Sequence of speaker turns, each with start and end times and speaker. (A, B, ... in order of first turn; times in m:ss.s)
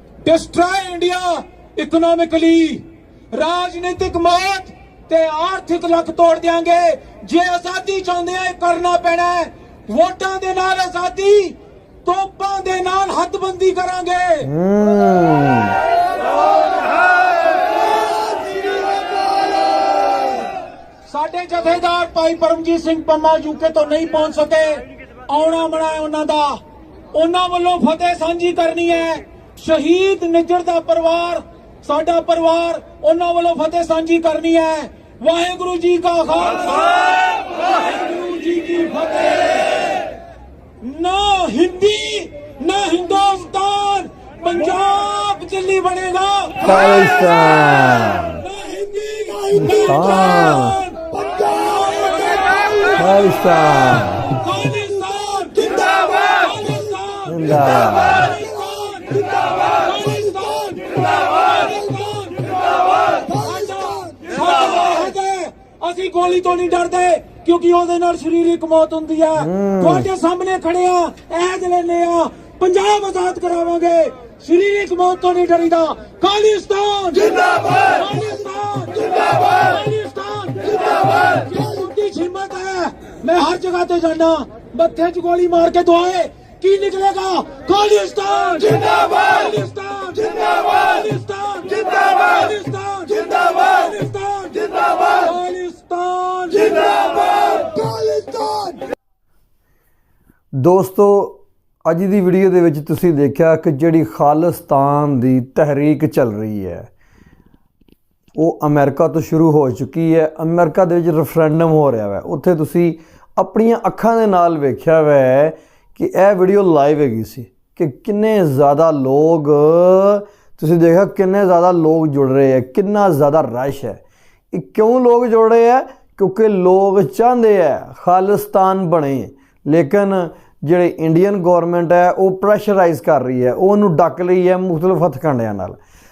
0:00.2-0:14.5 A
0:14.4-0:15.8 B
0:21.1-0:26.6 A
0:27.1-0:40.0 A
0:40.8-0:47.4 A
0:46.6-0:48.4 B
0:48.4-0:53.3 A
0:49.6-0:50.8 B
0:53.0-0:54.3 B
0:54.3-1:38.8 A
0:57.3-0:58.3 B
1:09.4-1:10.1 B
1:40.6-1:46.9 B
1:48.4-2:04.0 B
2:04.5-2:15.8 B